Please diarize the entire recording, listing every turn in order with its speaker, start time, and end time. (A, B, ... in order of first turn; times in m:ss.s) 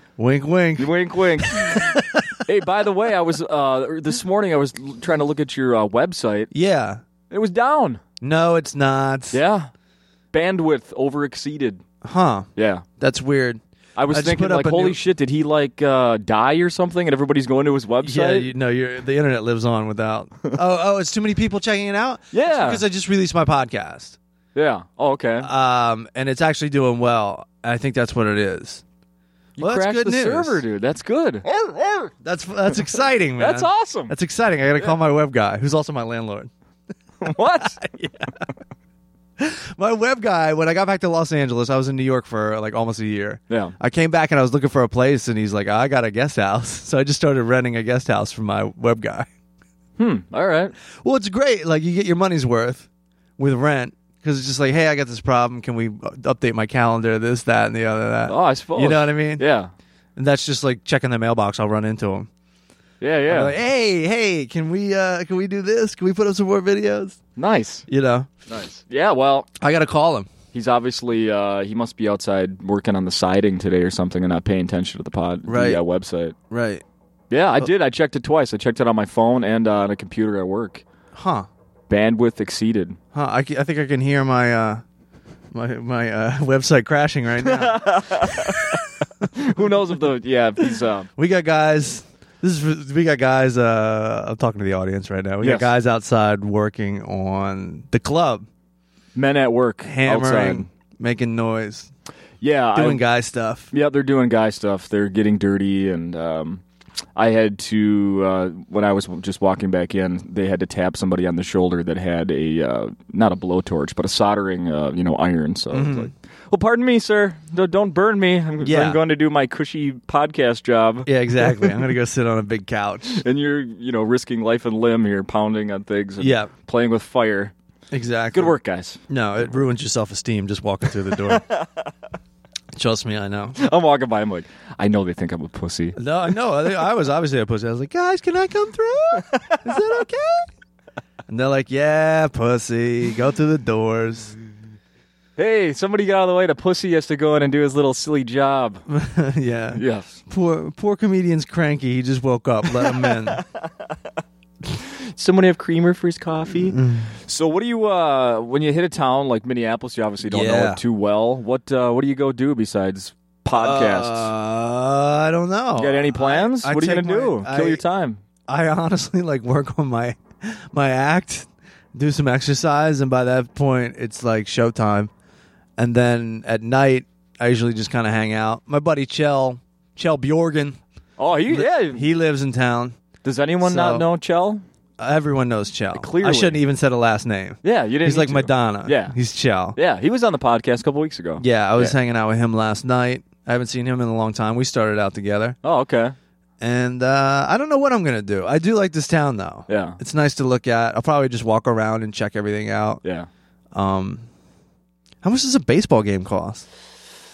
0:00.2-0:02.4 A
0:00.8-0:06.5 B
0:06.5-0:07.0 A
0:07.3-0:08.0 B
0:08.2-0:09.4 A
0:09.3-0:09.7 B
0:10.3-0:11.8 B
0:12.0-0:12.5 A
0:12.6-0:12.8 B
0:13.0-0:13.6 A
0:14.0-0:18.5 B
0:14.1-0:15.0 A
0:18.0-0:24.2 A
0:22.3-0:22.8 B
0:24.5-0:25.5 B
0:25.4-0:28.8 A
0:29.6-0:31.4 B
0:29.6-0:30.6 A
0:31.6-0:36.5 A
0:33.4-0:34.1 B
0:37.2-0:37.8 B
0:37.2-0:38.4 A
0:39.4-0:49.3 A
0:50.0-0:50.7 B
0:51.0-0:52.9 A
0:53.4-0:59.4 A
0:58.3-0:59.7 B
1:00.2-1:02.3 A
1:03.0-1:03.5 B
1:03.3-1:07.2 A
1:07.4-1:07.8 B
1:07.9-1:08.3 A
1:08.5-1:09.5 B
1:09.6-1:10.3 A
1:10.5-1:16.3 B
1:15.4-1:15.8 A
1:16.5-1:16.8 A
1:17.3-1:20.8 B
1:21.1-1:21.5 A
1:21.9-1:23.0 B
1:23.1-1:24.8 A
1:25.5-1:29.3 A
1:27.4-1:31.1 B
1:31.2-1:38.4 A
1:35.4-1:35.7 B
1:39.1-1:40.7 B
1:39.8-1:41.9 A
1:42.4-1:43.0 B
1:42.7-1:43.7 A
1:43.7-1:46.6 B
1:47.2-2:01.9 B
1:55.7-1:56.1 A
1:58.6-1:59.0 A
2:01.0-2:03.2 A
2:03.1-2:07.5 B
2:06.2-2:06.5 A
2:07.9-2:08.6 A
2:08.3-2:09.5 B
2:09.1-2:11.4 A
2:11.0-2:11.9 B
2:12.7-2:13.6 A
2:13.6-2:16.0 B
2:16.0-2:20.5 A
2:19.2-2:19.8 B
2:21.3-2:24.3 A
2:25.4-2:28.8 B
2:28.9-2:33.4 A
2:29.7-2:30.2 B
2:32.7-2:33.9 B
2:34.7-2:44.3 B
2:36.7-2:37.1 A
2:40.2-2:40.8 A
2:43.5-2:47.8 A
2:45.8-2:48.2 B
2:48.5-2:55.1 A
2:55.8-3:00.8 A
3:01.2-3:02.0 B
3:01.5-3:03.0 A
3:03.2-3:04.6 B
3:03.6-3:04.1 A
3:05.0-3:09.8 A
3:05.9-3:06.6 B
3:07.6-3:09.1 B
3:09.8-3:12.0 B
3:11.4-3:15.6 A
3:15.6-3:16.1 B
3:16.6-3:23.0 A
3:19.7-3:20.0 B
3:23.7-3:24.2 A
3:25.2-3:26.6 A